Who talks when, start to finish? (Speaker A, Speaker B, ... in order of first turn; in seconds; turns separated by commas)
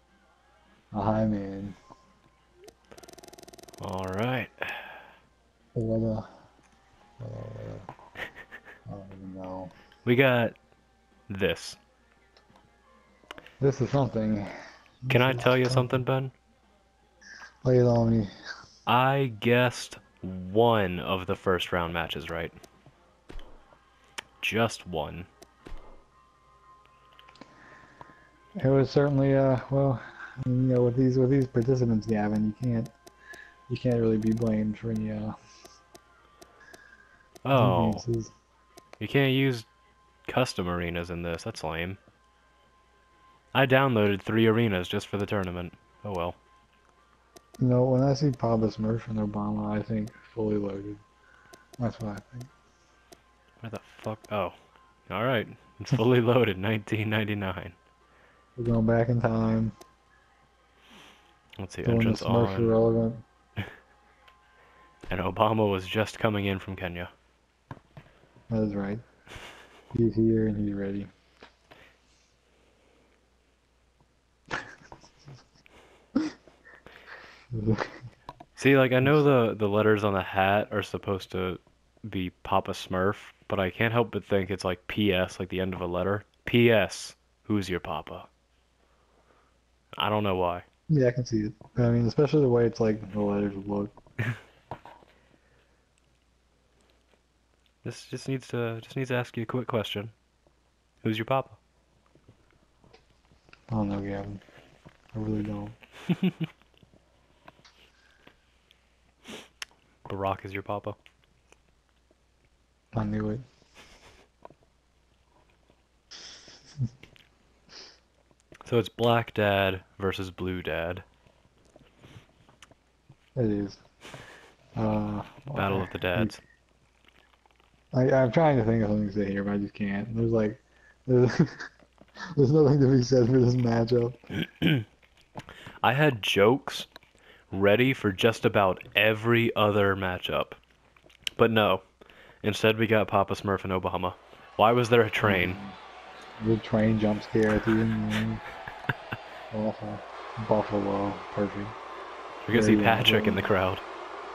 Speaker A: 0.9-1.8, Speaker B: 3.8-5.0, Speaker A: 5.7-6.3, Speaker A: 7.2-7.9, Speaker A: 8.9-9.7, Speaker B: 10.0-10.6, Speaker B: 11.3-11.8, Speaker A: 13.6-14.5, Speaker A: 15.0-16.0, Speaker B: 15.1-16.3, Speaker A: 17.6-18.3, Speaker B: 18.9-22.6, Speaker B: 24.4-25.3, Speaker A: 28.6-32.9, Speaker A: 33.7-35.4, Speaker B: 37.4-38.0, Speaker A: 37.5-38.3, Speaker B: 39.0-39.7, Speaker B: 40.2-42.0, Speaker B: 43.5-46.4, Speaker A: 47.6-51.0, Speaker A: 51.8-52.5, Speaker B: 53.6-54.5, Speaker B: 55.1-57.8, Speaker A: 58.5-59.8, Speaker B: 61.6-62.8, Speaker A: 61.8-63.2, Speaker B: 65.1-67.1, Speaker A: 68.5-69.0, Speaker A: 69.9-71.1, Speaker A: 77.5-78.0, Speaker B: 78.6-88.3, Speaker B: 90.0-90.6, Speaker A: 90.9-94.0, Speaker B: 97.8-100.1, Speaker B: 101.0-101.6, Speaker A: 103.7-104.4, Speaker A: 105.1-105.8, Speaker B: 110.1-111.0, Speaker A: 112.9-113.4, Speaker B: 118.6-121.0, Speaker A: 123.3-123.8, Speaker A: 124.8-126.3, Speaker B: 125.5-126.4, Speaker A: 127.9-131.7, Speaker A: 132.3-134.2, Speaker B: 134.3-134.8, Speaker B: 135.8-136.9, Speaker B: 137.5-140.6, Speaker B: 141.4-141.8, Speaker B: 142.4-145.6, Speaker A: 145.2-145.8, Speaker A: 146.4-148.4, Speaker A: 149.5-151.7, Speaker B: 152.4-153.8, Speaker A: 152.5-153.5